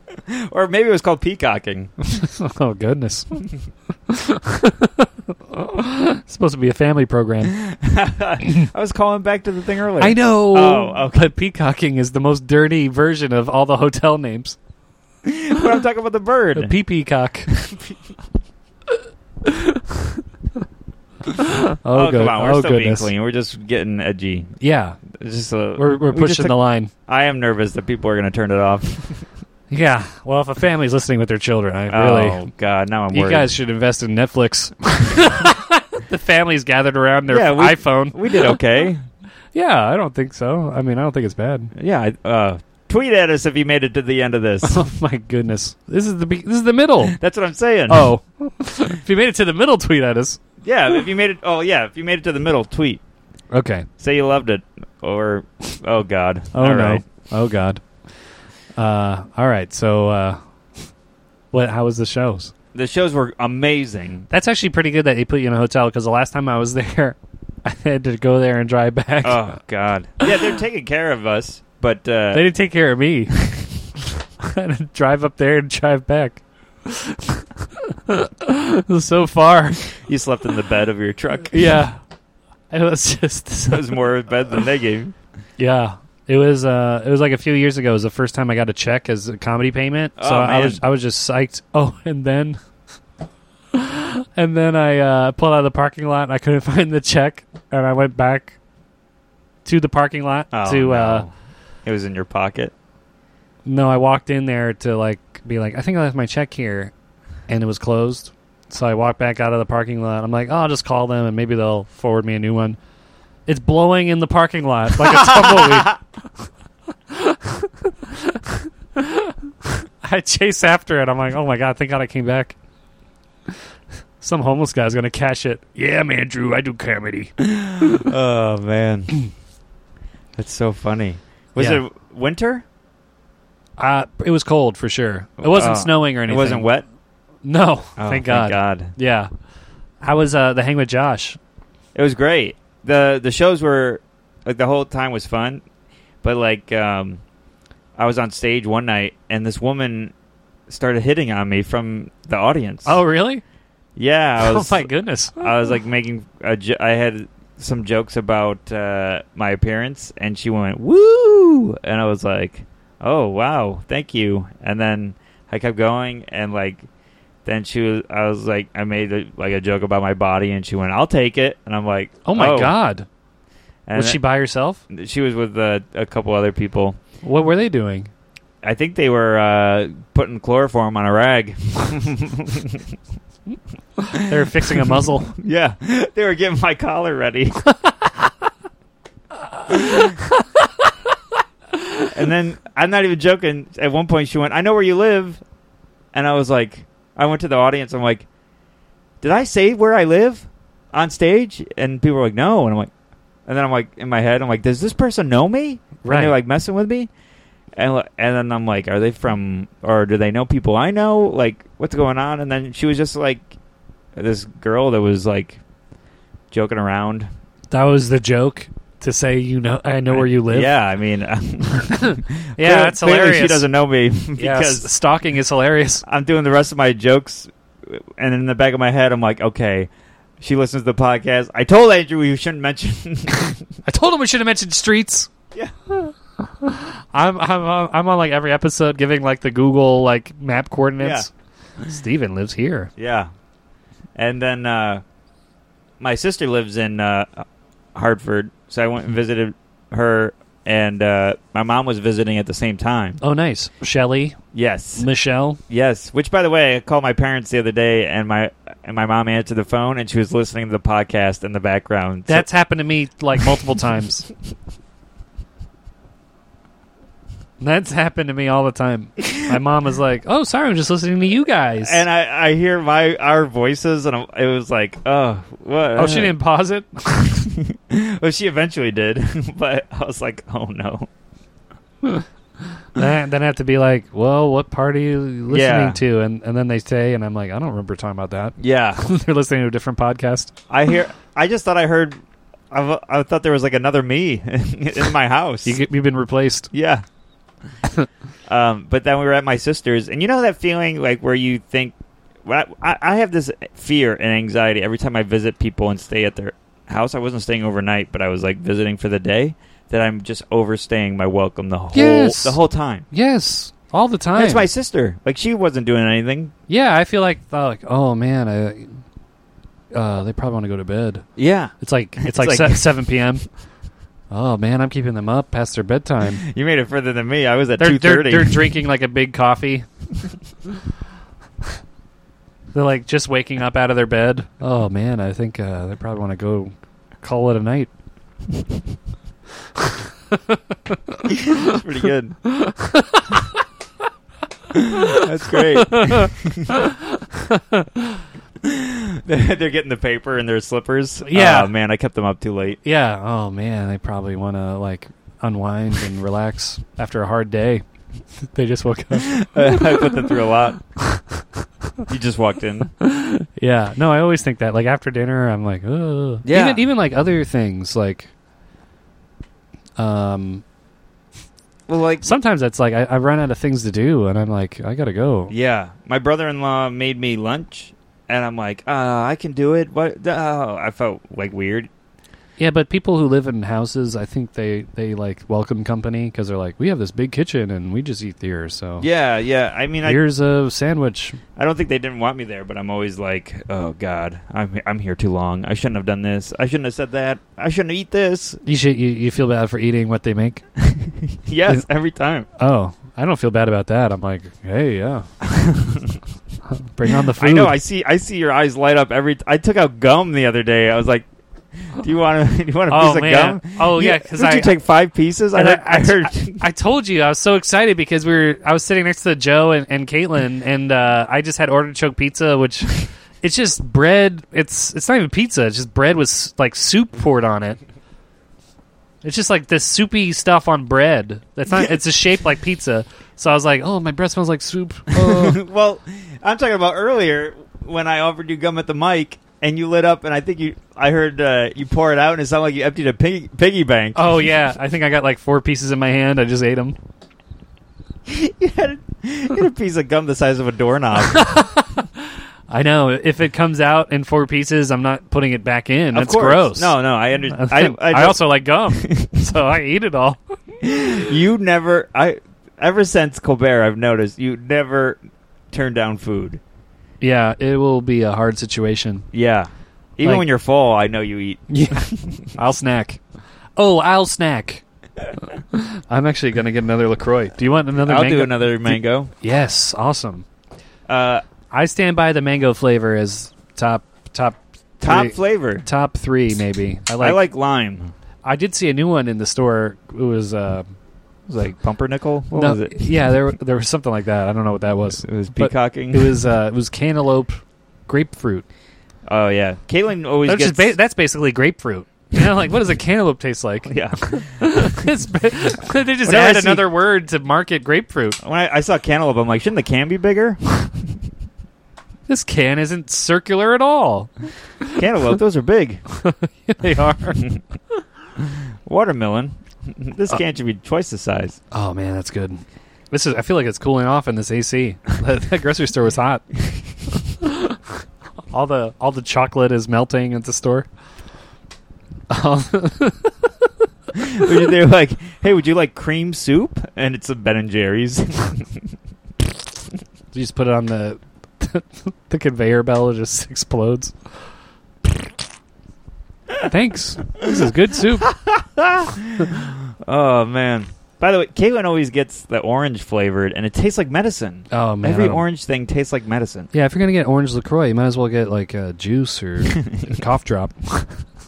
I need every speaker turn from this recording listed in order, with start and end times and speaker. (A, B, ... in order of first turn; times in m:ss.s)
0:00.3-0:02.1 A
0:02.2-0:03.4 B
0:04.1-0:07.6 B
0:07.6-0:11.3 A
0:10.0-0:14.6 B
0:15.2-0:16.7 A
0:16.6-0:17.5 B
0:17.5-0:18.0 A
0:19.4-0:20.0 B
0:21.8-0:23.1 B
0:21.9-0:24.5 A
0:24.6-0:25.0 B
0:25.1-0:26.5 A
0:25.8-0:26.9 B
0:27.1-0:29.3 A
0:29.7-0:32.4 B
0:31.9-0:33.5 A
0:33.1-0:38.6 B
0:37.3-0:39.0 A
0:39.5-0:41.7 B
0:41.8-0:44.8 A
0:44.6-0:47.2 B
0:47.1-0:48.1 A
0:47.9-0:50.4 B
0:50.6-0:53.0 A
0:53.5-0:53.9 B
0:54.0-0:57.0 A
0:56.5-0:57.8 B
0:58.8-1:00.4 B
1:01.5-1:02.5 B
1:02.7-1:04.3 A
1:04.3-1:09.5 B
1:09.2-1:12.4 A
1:12.3-1:13.4 B
1:14.4-1:19.8 B
1:19.9-1:21.6 A
1:21.5-1:22.0 B
1:22.7-1:23.9 B
1:23.7-1:25.2 A
1:25.6-1:32.6 B
1:30.2-1:30.8 A
1:33.7-1:38.6 B
1:39.6-1:41.3 B
1:40.5-1:41.3 A
1:41.8-1:42.7 A
1:43.6-1:46.9 B
1:47.5-1:52.8 B
1:53.5-1:56.0 B
1:55.1-1:56.0 A
1:57.1-2:02.6 B
2:04.2-2:08.0 B
2:07.4-2:09.2 A
2:10.4-2:12.6 A
2:11.6-2:11.8 B
2:13.8-2:16.7 B
2:15.4-2:16.8 A
2:17.4-2:19.3 B
2:18.0-2:18.9 A
2:20.0-2:21.4 B
2:21.9-2:25.6 A
2:26.2-2:27.2 A
2:28.0-2:30.1 A
2:30.7-2:33.0 A
2:32.9-2:33.4 B
2:34.0-2:34.9 A
2:34.4-2:35.5 B
2:35.4-2:46.9 A
2:47.4-2:52.8 A
2:52.2-2:53.1 B
2:53.9-2:54.2 A
2:53.9-2:54.8 B
2:54.9-2:57.0 A
2:57.2-2:58.1 B
2:58.6-3:02.8 A
3:04.2-3:05.3 B
3:05.4-3:07.6 A
3:09.7-3:10.1 A
3:09.7-3:10.2 B
3:12.1-3:15.4 A
3:16.1-3:18.3 A
3:19.2-3:22.9 A
3:23.5-3:27.1 A
3:26.0-3:26.4 B
3:27.8-3:33.5 A
3:34.2-3:35.6 A
3:36.5-3:37.3 A
3:37.7-3:40.7 B
3:40.1-3:44.9 A
3:42.0-3:43.7 B
3:44.4-3:46.0 B
3:46.1-3:53.6 A
3:53.8-3:55.3 B
3:56.0-4:01.3 B
4:01.0-4:01.3 A
4:01.9-4:02.9 B
4:03.0-4:03.3 A
4:04.2-4:05.0 A
4:06.0-4:13.2 A
4:13.2-4:14.4 B
4:14.5-4:15.1 A
4:15.0-4:15.6 B
4:15.7-4:22.5 A
4:22.3-4:24.3 B
4:27.6-4:32.0 B
4:31.8-4:36.4 A
4:36.0-4:37.4 B
4:37.4-4:41.1 A
4:42.9-4:50.5 B
4:45.5-4:46.0 A
4:48.6-4:49.0 A
4:50.7-4:52.2 A
4:52.7-4:55.8 A
4:55.6-4:56.7 B
4:56.7-4:57.0 A
4:58.5-5:13.1 A
5:11.9-5:14.7 B
5:14.4-5:16.5 A
5:16.7-5:19.0 B
5:19.9-5:21.3 B
5:21.4-5:22.9 A
5:21.8-5:23.4 B
5:24.3-5:26.4 B
5:26.4-5:28.8 A
5:27.8-5:29.9 B
5:32.7-5:37.9 B
5:40.5-5:41.4 B
5:41.3-5:42.4 A
5:42.5-5:43.4 B
5:44.7-5:46.8 A
5:44.9-5:48.2 B
5:48.6-5:52.8 A
5:51.2-5:51.7 B
5:52.8-5:57.8 B
5:58.5-6:00.4 B
5:59.2-6:00.8 A
6:01.0-6:01.4 B
6:02.1-6:02.9 A
6:03.0-6:08.3 B
6:06.4-6:06.8 A
6:10.0-6:10.6 B
6:11.9-6:12.3 A
6:12.2-6:15.5 B
6:15.5-6:21.9 A
6:22.6-6:29.1 B
6:29.0-6:30.2 A
6:30.0-6:31.4 B
6:31.6-6:38.6 A
6:38.6-6:40.6 B
6:40.8-6:42.5 A
6:42.6-6:45.3 B
6:45.4-6:46.2 A
6:46.7-6:47.8 B
6:47.4-6:51.3 A
6:51.9-6:56.6 A
6:52.9-6:54.8 B
6:55.5-7:07.8 B
7:09.2-7:15.6 B
7:15.1-7:24.6 A
7:24.2-7:27.0 B
7:28.3-7:31.5 A
7:31.2-7:32.0 B
7:32.7-7:37.0 B
7:36.1-7:38.4 A
7:37.5-7:40.4 B
7:40.8-7:45.2 A
7:45.7-7:46.6 A
7:47.2-7:49.3 B
7:49.3-7:52.5 A
7:51.7-7:53.2 B
7:53.8-7:54.8 B
7:55.7-8:00.5 B
7:58.0-7:59.3 A
8:01.1-8:01.4 A
8:01.7-8:07.4 B
8:05.0-8:05.8 A
8:07.2-8:08.1 A
8:08.4-8:10.9 B
8:11.5-8:13.1 A
8:12.5-8:18.7 B
8:15.2-8:16.4 A
8:19.3-8:20.9 A
8:20.5-8:28.4 B
8:23.9-8:25.1 A
8:26.2-8:26.9 A
8:28.4-8:31.0 A
8:32.3-8:34.3 B
8:35.0-8:36.0 A
8:36.1-8:37.5 B
8:38.4-8:41.6 A
8:41.7-8:46.4 B
8:47.4-8:47.8 B
8:48.5-8:50.9 B
8:52.3-8:53.5 B
8:54.2-8:58.8 A
9:00.3-9:04.1 B
9:06.7-9:08.3 B
9:08.2-9:16.7 A
9:14.7-9:15.4 B
9:16.7-9:21.2 B
9:19.7-9:20.1 A